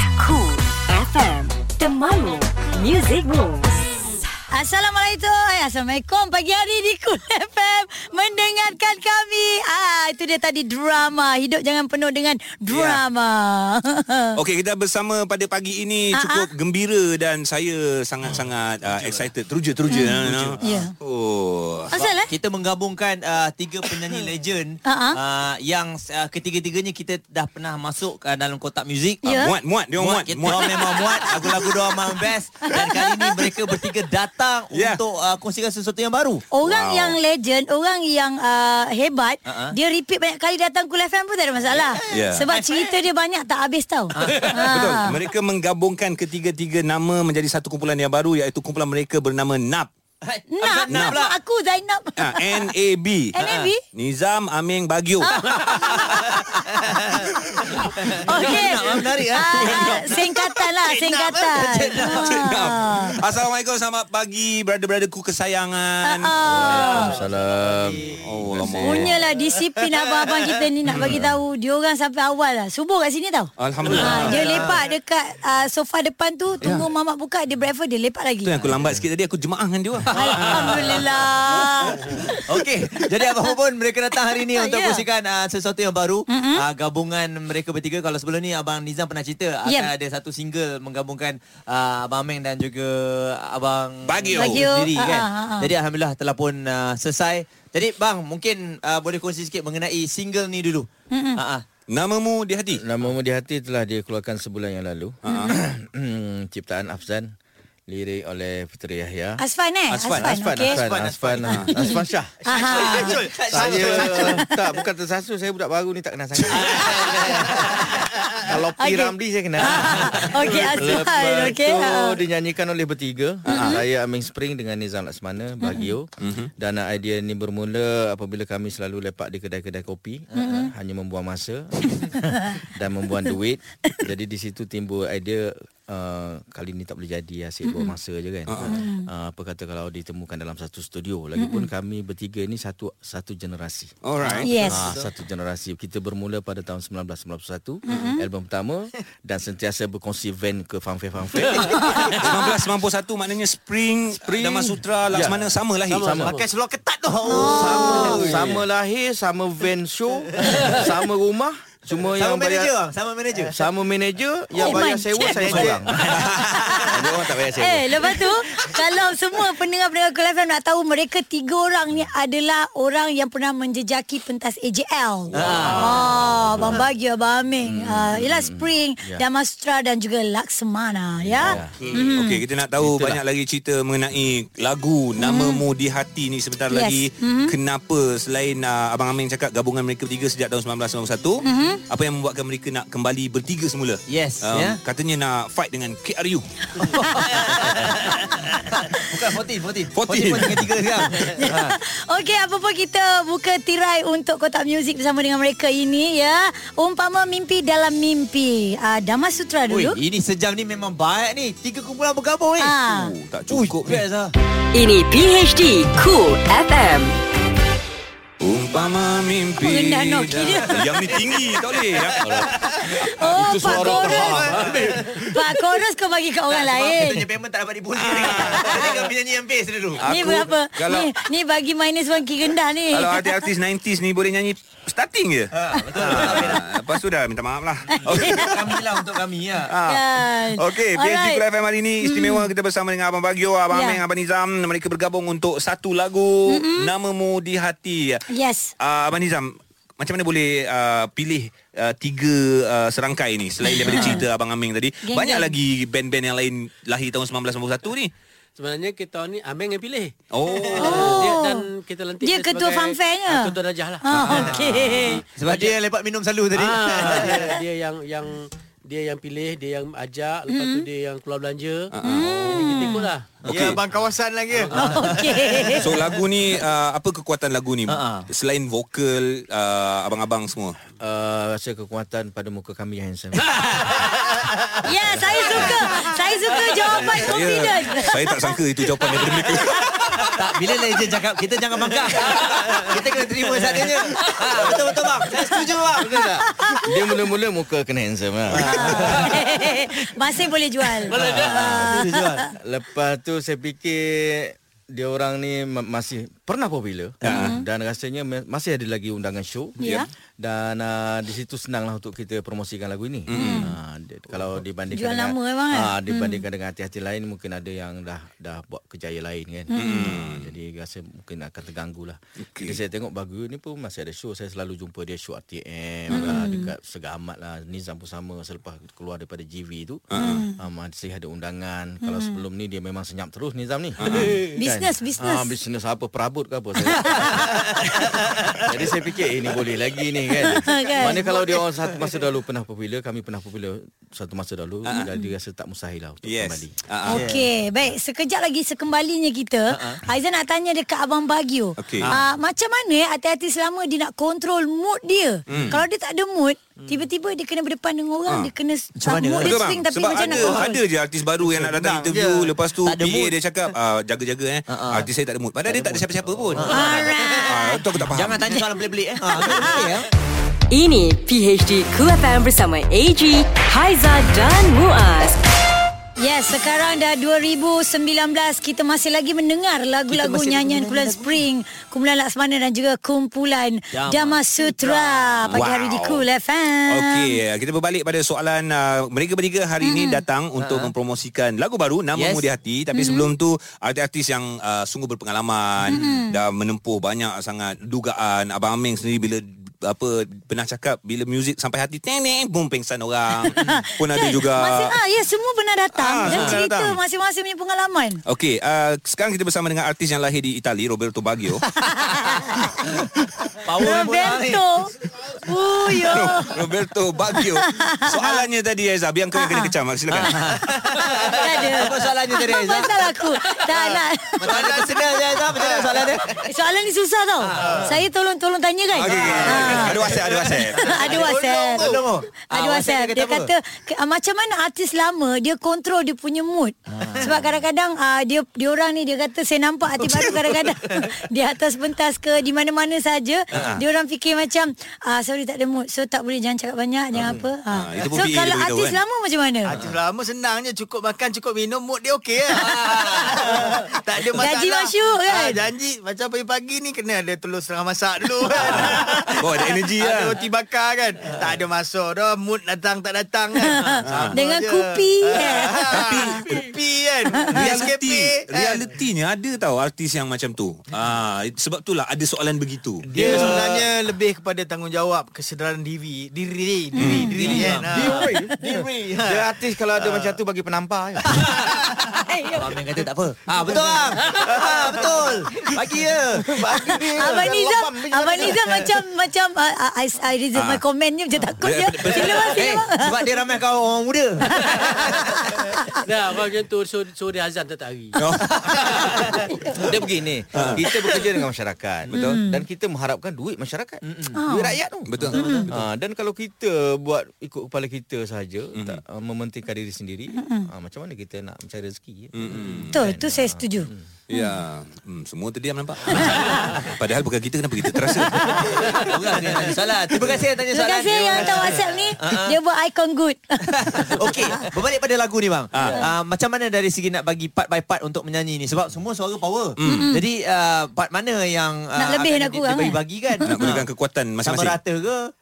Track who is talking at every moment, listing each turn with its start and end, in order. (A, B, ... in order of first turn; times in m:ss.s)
0:00.2-0:04.3 A
0:04.5-0:14.4 B
0:12.7-0:13.0 C
0:14.4-0:21.9 C
0:16.2-0:16.5 B
0:18.3-0:19.3 D
0:19.9-0:20.9 B
0:20.2-0:20.8 D
0:21.9-0:22.3 B
0:21.9-0:29.4 D
0:24.8-0:25.2 B
0:29.2-0:29.5 B
0:29.4-0:31.3 C
0:30.0-0:36.4 D
0:30.5-0:31.7 B
0:32.7-0:33.7 B
0:34.7-0:35.0 C
0:36.5-0:45.1 B
0:36.6-0:37.2 C
0:39.5-0:39.8 D
0:41.7-0:42.9 D
0:42.1-0:42.5 C
0:44.2-0:45.0 D
0:44.2-0:49.9 C
0:50.2-0:51.4 D
0:50.5-0:52.7 B
0:50.9-0:51.2 C
0:52.2-0:53.4 C
0:53.3-0:53.8 B
0:53.4-0:53.7 D
0:53.9-0:56.4 C
0:55.2-0:56.2 B
0:55.4-1:02.5 D
0:57.2-0:57.8 C
0:58.2-1:03.1 B
1:02.1-1:06.9 C
1:06.0-1:07.1 B
1:06.5-1:09.1 E
1:06.6-1:08.2 F
1:08.2-1:09.2 C
1:08.8-1:18.5 B
1:10.9-1:11.2 C
1:11.0-1:11.4 E
1:13.6-1:14.6 C
1:13.9-1:14.8 D
1:18.4-1:21.1 C
1:20.1-1:21.1 D
1:20.1-1:22.4 B
1:22.1-1:41.6 D
1:24.5-1:25.0 B
1:26.3-1:26.6 B
1:29.7-1:29.9 B
1:34.1-1:34.7 C
1:34.4-1:35.7 B
1:41.1-1:41.4 B
1:41.9-1:42.8 C
1:42.7-1:47.3 E
1:45.2-1:45.6 C
1:45.3-1:45.5 B
1:47.9-1:49.4 E
1:49.4-1:50.8 B
1:49.9-1:50.3 C
1:50.1-1:52.4 E
1:50.6-1:51.7 F
1:51.4-1:51.7 C
1:51.8-1:53.2 B
1:52.5-1:54.3 D
1:52.5-1:54.4 F
1:53.5-2:32.5 E
1:56.5-1:58.0 D
1:58.8-2:02.2 B
2:03.5-2:03.8 C
2:03.5-2:03.8 B
2:05.6-2:05.9 B
2:06.2-2:06.5 C
2:10.3-2:10.6 D
2:10.4-2:10.7 B
2:12.0-2:12.5 B
2:17.7-2:17.9 B
2:18.5-2:18.7 C
2:18.7-2:19.1 B
2:21.4-2:21.7 B
2:24.0-2:24.5 C
2:24.2-2:25.1 D
2:24.4-2:24.8 B
2:27.9-2:28.2 B
2:32.1-2:36.2 C
2:34.2-2:36.4 E
2:35.9-2:36.5 G
2:36.2-2:38.6 D
2:37.3-2:38.2 B
2:37.5-2:38.3 G
2:37.8-2:42.7 E
2:42.2-2:43.6 D
2:43.5-2:46.2 E
2:44.6-2:47.0 D
2:44.6-2:45.7 B
2:46.1-2:47.4 C
2:46.4-2:47.0 B
2:46.8-2:48.2 E
2:47.6-3:02.4 B
2:55.3-2:56.9 E
2:55.4-2:56.0 D
2:57.6-2:59.2 E
3:01.2-3:01.9 E
3:02.0-3:16.9 C
3:02.8-3:03.2 E
3:05.2-3:05.6 B
3:06.7-3:07.5 B
3:11.4-3:11.8 B
3:14.1-3:14.8 D
3:16.8-3:21.8 D
3:16.8-3:18.2 B
3:17.4-3:17.8 C
3:19.9-3:20.8 C
3:21.1-3:30.0 B
3:29.7-3:32.7 D
3:32.6-3:33.1 B
3:32.9-3:34.0 C
3:33.5-3:34.3 D
3:34.7-3:37.1 A
3:38.4-3:42.3 C
3:39.6-3:40.9 B
3:42.2-3:45.1 E
3:43.0-3:44.5 B
3:43.8-3:45.1 F
3:45.2-3:47.3 B
3:46.5-3:50.2 D
3:48.0-3:48.8 C
3:50.0-3:51.1 C
3:50.0-3:53.5 B
3:52.9-3:58.6 C
3:55.5-3:56.6 D
3:56.2-3:56.6 B
3:57.9-3:58.6 B
3:58.0-3:59.7 D
3:59.7-4:08.2 C
3:59.9-4:01.4 B
4:02.0-4:02.5 B
4:03.7-4:04.0 B
4:06.5-4:06.9 B
4:08.3-4:08.7 B
4:08.8-4:18.1 C
4:13.7-4:14.2 B
4:15.0-4:15.5 B
4:18.6-4:25.8 G
4:20.3-4:21.3 C
4:20.8-4:21.6 B
4:22.2-4:25.2 B
4:24.1-4:25.2 C
4:24.3-4:27.4 D
4:26.5-4:33.4 G
4:30.5-4:30.8 B
4:31.9-4:32.3 C
4:32.0-4:33.1 B
4:33.4-4:33.8 C
4:33.5-4:33.8 D
4:33.5-4:35.8 F
4:34.5-4:35.1 G
4:34.7-4:35.2 D
4:34.8-4:35.8 B
4:35.8-4:40.8 C
4:37.9-4:38.3 D
4:41.0-4:43.8 E
4:44.2-4:44.8 F
4:44.8-4:48.6 B
4:45.1-4:45.6 E
4:47.0-4:50.3 C
4:49.5-4:49.8 B
4:50.3-4:56.3 D
4:56.0-4:59.4 E
4:56.5-4:57.0 B
4:58.6-4:59.4 D
4:58.6-5:02.5 B
5:01.1-5:01.7 G
5:01.1-5:46.8 E
5:01.1-5:02.5 D
5:07.2-5:07.6 C
5:07.3-5:07.6 B
5:09.8-5:10.1 B
5:13.3-5:13.7 C
5:13.3-5:13.7 B
5:14.9-5:16.4 B
5:19.7-5:20.1 B
5:19.8-5:20.5 C
5:22.5-5:22.8 C
5:26.1-5:26.4 C
5:26.1-5:26.7 B
5:30.1-5:30.5 C
5:30.2-5:30.6 B
5:32.0-5:32.4 B
5:34.0-5:34.4 C
5:34.6-5:35.5 B
5:36.9-5:37.4 B
5:40.4-5:41.3 B
5:40.7-5:42.1 F
5:46.2-5:47.3 C
5:47.1-6:00.8 B
5:47.1-5:47.5 D
5:49.7-5:50.0 D
5:51.8-5:52.1 C
5:55.5-5:55.8 C
5:59.0-5:59.6 D
5:59.4-6:06.9 C
6:01.5-6:02.5 F
6:02.8-6:03.3 D
6:04.7-6:05.1 D
6:05.7-6:07.1 D
6:06.7-6:07.8 B
6:07.4-6:08.4 C
6:08.0-6:10.1 D
6:08.5-6:09.9 B
6:10.7-6:15.4 A
6:16.2-6:27.4 B
6:20.1-6:21.4 D
6:23.9-6:25.6 D
6:25.5-6:26.3 C
6:26.9-6:45.0 C
6:29.8-6:30.2 B
6:30.6-6:30.9 D
6:32.2-6:32.5 D
6:32.9-6:33.3 B
6:35.9-6:36.4 B
6:43.5-6:48.2 B
6:46.0-6:47.0 C
6:46.3-6:46.6 D
6:48.3-6:51.7 C
6:51.8-6:52.8 B
6:53.6-6:54.6 D
6:53.8-6:56.6 B
6:56.0-7:00.6 C
6:57.3-6:58.4 B
6:59.4-6:59.7 B
7:00.1-7:03.0 D
7:01.1-7:01.5 F
7:01.2-7:04.5 B
7:03.8-7:06.3 F
7:04.4-7:06.3 D
7:06.4-7:09.9 B
7:07.4-7:08.0 D
7:07.5-7:08.0 F
7:09.0-7:11.0 C
7:09.1-7:12.2 F
7:09.2-7:13.5 D
7:10.8-7:11.9 B
7:12.5-7:29.8 B
7:16.9-7:17.4 D
7:23.5-7:23.8 D
7:23.5-7:23.8 C
7:27.2-7:29.0 C
7:29.7-7:48.9 F
7:32.7-7:33.4 D
7:34.4-7:35.6 B
7:38.6-7:40.4 C
7:43.6-7:46.4 B
7:44.1-7:44.4 C
7:45.9-7:46.7 C
7:47.5-7:53.5 C
7:53.0-8:00.3 F
7:53.2-7:53.6 E
7:53.2-7:53.8 D
7:57.0-7:57.4 B
7:57.0-7:57.8 C
7:57.1-7:58.8 D
7:57.9-8:01.6 E
8:01.4-8:01.7 D
8:01.4-8:02.2 F
8:02.3-8:02.7 B
8:02.5-8:06.6 D
8:04.3-8:05.7 F
8:06.6-8:08.8 F
8:06.6-8:08.5 E
8:07.1-8:13.1 B
8:10.6-8:10.8 C
8:11.6-8:12.7 C
8:12.2-8:15.2 D
8:14.5-8:16.0 B
8:16.0-8:18.2 G
8:18.2-8:18.7 C
8:18.4-8:18.8 D
8:19.8-8:25.2 E
8:20.5-8:20.8 C
8:22.1-8:22.4 C
8:22.1-8:22.6 B
8:24.1-8:24.3 D
8:24.4-8:24.8 B
8:25.1-8:25.8 C
8:25.2-8:25.7 D
8:25.3-8:25.7 B
8:25.7-8:34.1 E
8:28.8-8:29.0 C
8:30.4-8:30.7 B
8:32.3-8:33.0 C
8:32.9-8:34.6 B
8:34.3-8:39.0 C
8:36.1-8:36.7 B
8:38.3-8:38.6 B
8:38.6-8:42.6 D
8:40.7-8:44.6 B
8:41.4-8:41.9 F
8:43.7-8:53.9 D
8:45.7-8:46.1 C
8:49.8-8:50.1 C
8:49.8-8:50.2 B
8:52.0-8:53.7 B
8:53.4-8:54.8 C
8:54.4-8:55.3 D